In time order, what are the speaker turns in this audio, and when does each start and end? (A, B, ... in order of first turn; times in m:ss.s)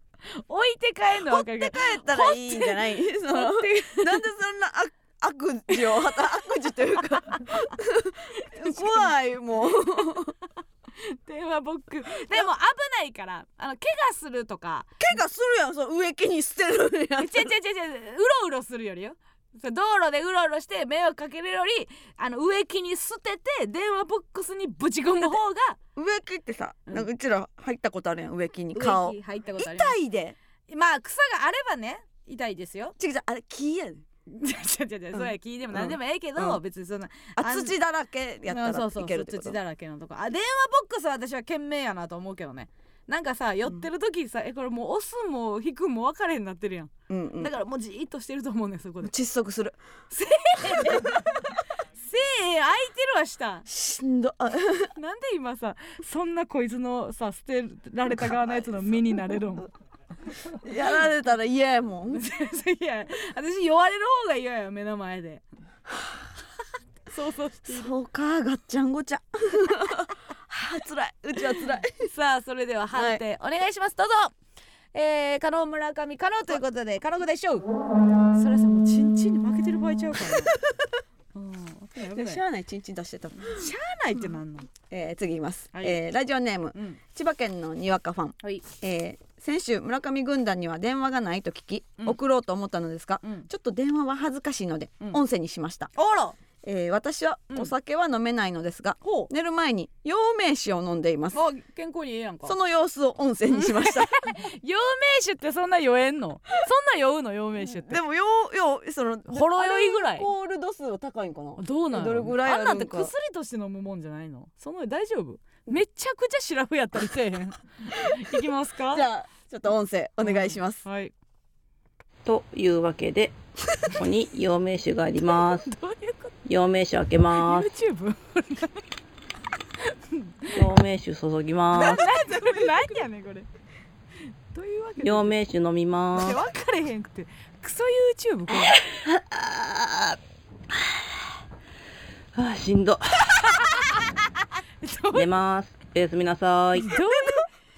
0:00.2-0:04.2 A
0:01.2-0:10.4 B
0:05.9-0:06.2 A
0:07.3-0:07.7 A
0:08.5-0:09.1 A
0:11.0-0:15.0 A
0:15.0-0:17.5 B
0:17.2-0:25.8 A
0:26.0-0:30.4 B
0:28.7-0:30.0 A
0:30.7-0:33.0 A
0:33.0-0:34.0 B
0:34.3-0:37.7 A
0:35.2-0:36.6 B
0:37.4-0:39.6 B
0:38.5-0:49.1 A
0:47.1-0:47.5 B
0:49.0-0:49.8 B
0:50.1-0:53.6 A
0:53.7-0:54.9 B
0:54.9-0:59.7 A
1:00.6-1:02.2 B
1:02.1-1:05.4 A
1:07.1-1:07.9 A
1:07.7-1:12.1 B
1:11.4-1:14.3 A
1:13.0-1:13.2 B
1:14.9-1:17.7 A
1:18.3-1:20.6 A
1:21.3-1:22.4 A
1:22.0-1:23.7 B
1:23.4-1:24.7 A
1:24.9-1:35.9 B
1:25.7-1:26.0 A
1:33.2-1:33.5 A
1:36.0-1:36.4 A
1:36.6-1:41.4 B
1:39.0-1:39.3 A
1:41.3-1:42.6 A
1:42.4-1:44.2 B
1:43.5-1:48.0 A
1:47.8-1:53.1 B
1:49.3-1:50.3 A
1:51.6-1:59.0 A
1:58.9-2:00.8 B
2:00.2-2:01.1 A
2:02.3-2:05.7 C
2:05.2-2:06.4 A
2:06.5-2:07.7 C
2:07.4-2:08.8 A
2:09.8-2:10.7 A
2:10.5-2:12.0 C
2:11.7-2:13.5 A
2:14.5-2:15.3 A
2:15.0-2:16.4 C
2:16.1-2:18.8 A
2:18.7-2:20.2 C
2:22.3-2:24.0 C
2:23.4-2:24.1 A
2:24.8-2:25.3 A
2:25.1-2:26.9 C
2:26.8-2:27.5 A